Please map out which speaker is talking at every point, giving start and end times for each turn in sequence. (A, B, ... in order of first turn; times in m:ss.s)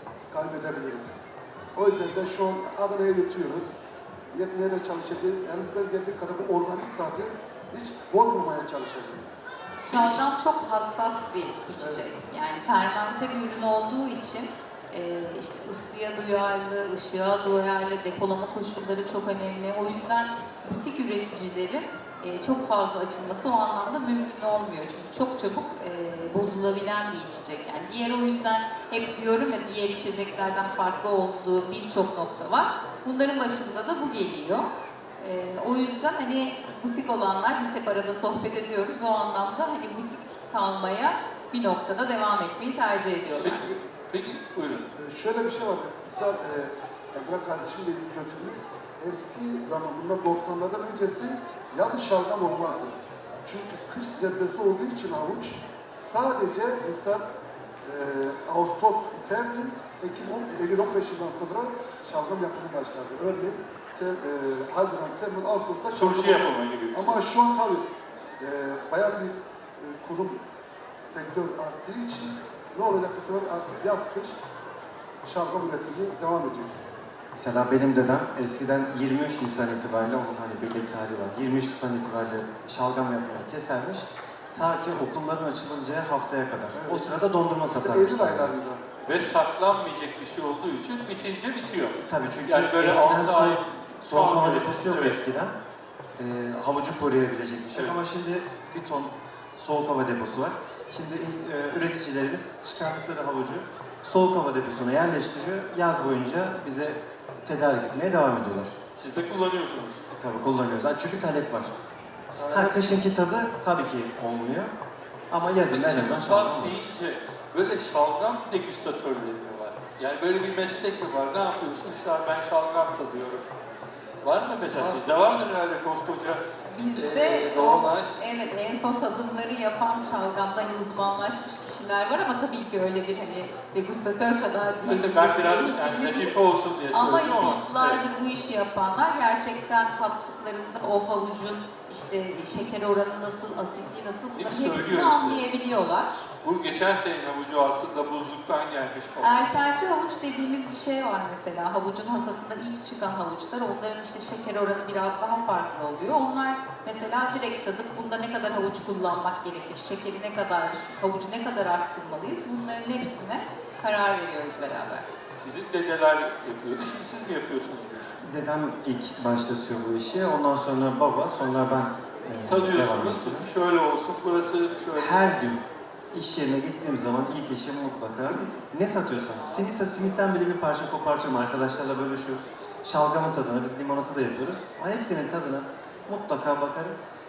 0:00.3-0:01.1 A
0:01.7-0:03.7 A
0:04.3-0:09.3 A
0:09.8-0:10.2 B
0:09.8-0:34.7 C
0:35.2-0:43.6 C
0:43.4-0:44.9 B
0:44.9-0:57.2 A
0:57.8-1:10.4 A
1:05.9-1:07.2 B
1:11.1-1:14.4 A
1:15.2-1:16.7 A
1:17.3-1:28.5 D
1:26.7-1:27.1 A
1:27.8-1:28.8 A
1:29.0-1:35.2 B
1:31.7-1:35.5 D
1:36.2-1:48.7 D
1:49.0-1:50.0 B
1:50.1-1:51.7 D
1:52.4-1:53.0 B
1:52.5-1:54.7 D
1:55.3-1:56.8 D
1:55.7-2:03.5 B
2:04.2-2:06.4 B
2:06.7-2:16.4 C
2:06.9-2:08.1 B
2:14.8-2:18.0 B
2:16.9-2:26.2 C
2:24.4-2:25.4 B
2:26.4-2:29.3 B
2:29.2-2:45.0 C
2:45.4-2:48.2 B
2:48.2-2:53.5 D
2:52.5-2:55.3 B
2:54.9-2:55.6 D
2:56.1-3:06.9 D